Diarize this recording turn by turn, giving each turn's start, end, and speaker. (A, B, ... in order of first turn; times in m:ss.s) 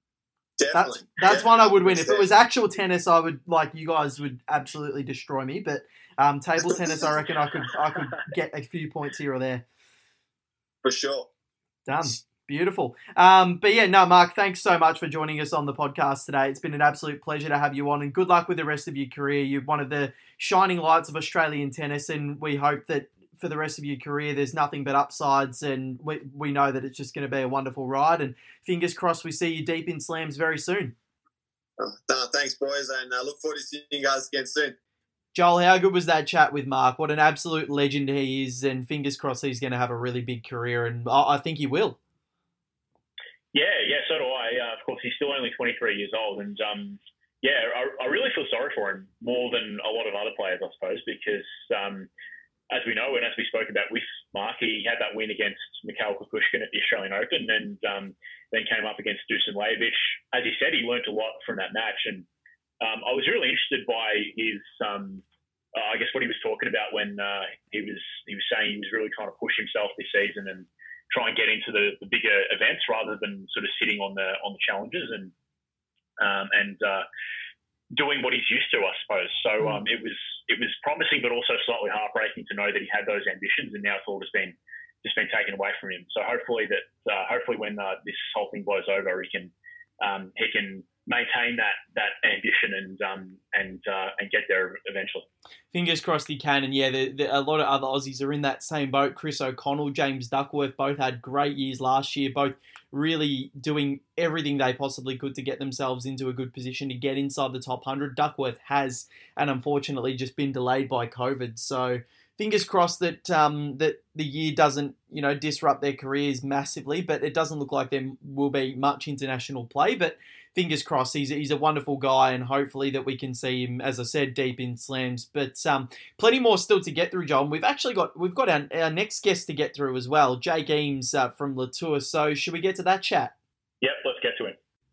0:00.6-0:02.3 A
0:00.7-0:09.6 B
0:06.6-0:07.0 A
0:10.8-0:11.3 A
0:11.8-0:30.9 B
0:31.8-0:34.7 A
0:35.3-0:42.0 B
0:43.5-0:52.1 C
0:52.7-1:02.2 C
1:02.8-1:05.2 C
1:05.7-1:15.3 C
1:16.2-1:17.0 C
1:17.9-1:35.3 C
1:35.7-2:13.3 B
2:13.8-2:14.6 C